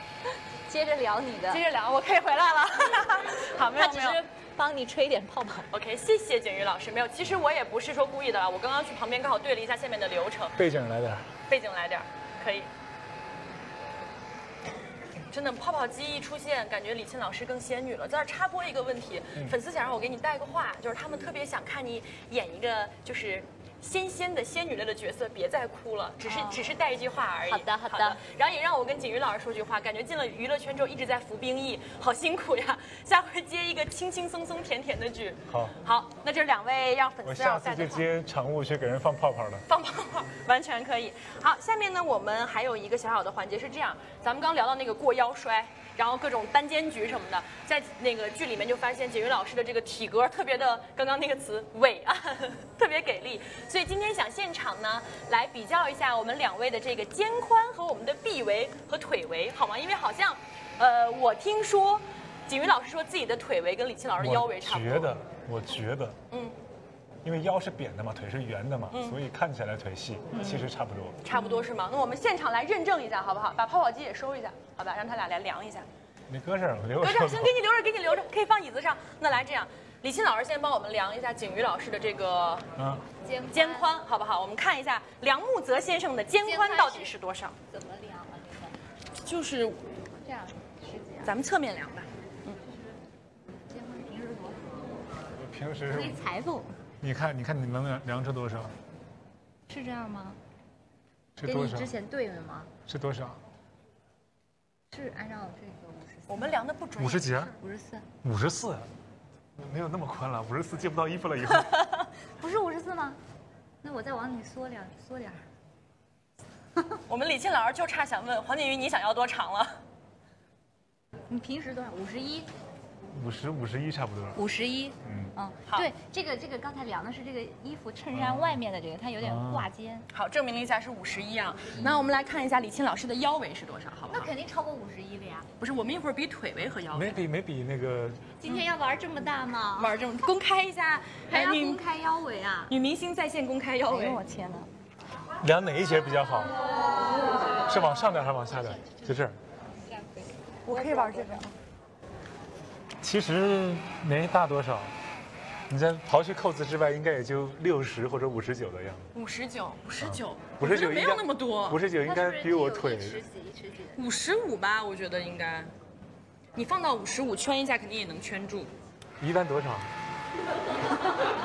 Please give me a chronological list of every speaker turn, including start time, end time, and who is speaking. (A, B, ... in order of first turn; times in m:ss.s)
0:00.6-0:01.6 A
0:01.5-0:04.2 B
0:03.7-0:05.7 A
0:05.7-0:10.6 B
0:10.6-0:11.3 C
0:11.5-0:12.7 B
0:15.3-0:38.1 B
0:26.2-0:26.7 A
0:27.5-0:28.2 A
0:35.5-0:35.7 C
0:37.2-0:39.6 C
0:39.7-1:05.1 B
1:04.2-1:06.2 C
1:06.3-1:06.6 B
1:07.2-1:11.2 C
1:08.9-1:09.2 B
1:10.3-1:10.7 A
1:11.2-1:15.9 B
1:11.3-1:11.7 A
1:16.3-1:17.5 C
1:17.0-1:22.6 B
1:22.8-1:23.0 C
1:23.2-1:23.9 A
1:23.5-1:27.5 B
1:26.4-1:27.1 A
1:27.7-1:28.8 A
1:29.2-1:29.8 B
1:30.2-1:31.3 A
1:31.2-1:32.6 B
1:33.7-1:34.9 A
1:35.4-1:36.2 C
1:35.9-1:36.8 A
1:37.0-1:38.7 C
1:39.7-1:40.4 A
1:41.4-1:41.9 C
1:41.4-1:42.7 A
1:42.9-1:43.4 C
1:44.9-1:46.6 A
1:46.3-1:47.6 B
1:47.0-1:47.5 C
1:47.6-1:48.1 A
1:48.2-1:48.9 C
1:49.6-1:51.9 C
1:51.8-1:53.2 A
1:53.8-1:55.4 A
1:57.1-1:59.8 B
2:01.3-2:02.5 A
2:03.1-2:04.4 C
2:04.3-2:10.1 A
2:05.0-2:05.3 C
2:08.1-2:08.6 C
2:09.2-2:09.7 C
2:10.1-2:14.3 B
2:14.1-2:15.5 A
2:15.6-2:17.2 B
2:16.9-2:18.3 C
2:18.4-2:20.0 A
2:19.8-2:21.8 B
2:21.3-2:22.7 A
2:22.7-2:24.2 B
2:23.9-2:24.7 A
2:25.4-2:26.6 C
2:27.5-2:31.5 A
2:27.6-2:29.4 C
2:30.6-2:31.5 B
2:33.0-2:34.9 C
2:35.7-2:39.1 C
2:39.1-2:41.8 B
2:40.0-2:43.2 C
2:42.0-2:44.1 A
2:44.0-2:45.7 B
2:46.5-2:48.7 B
2:49.2-2:49.9 C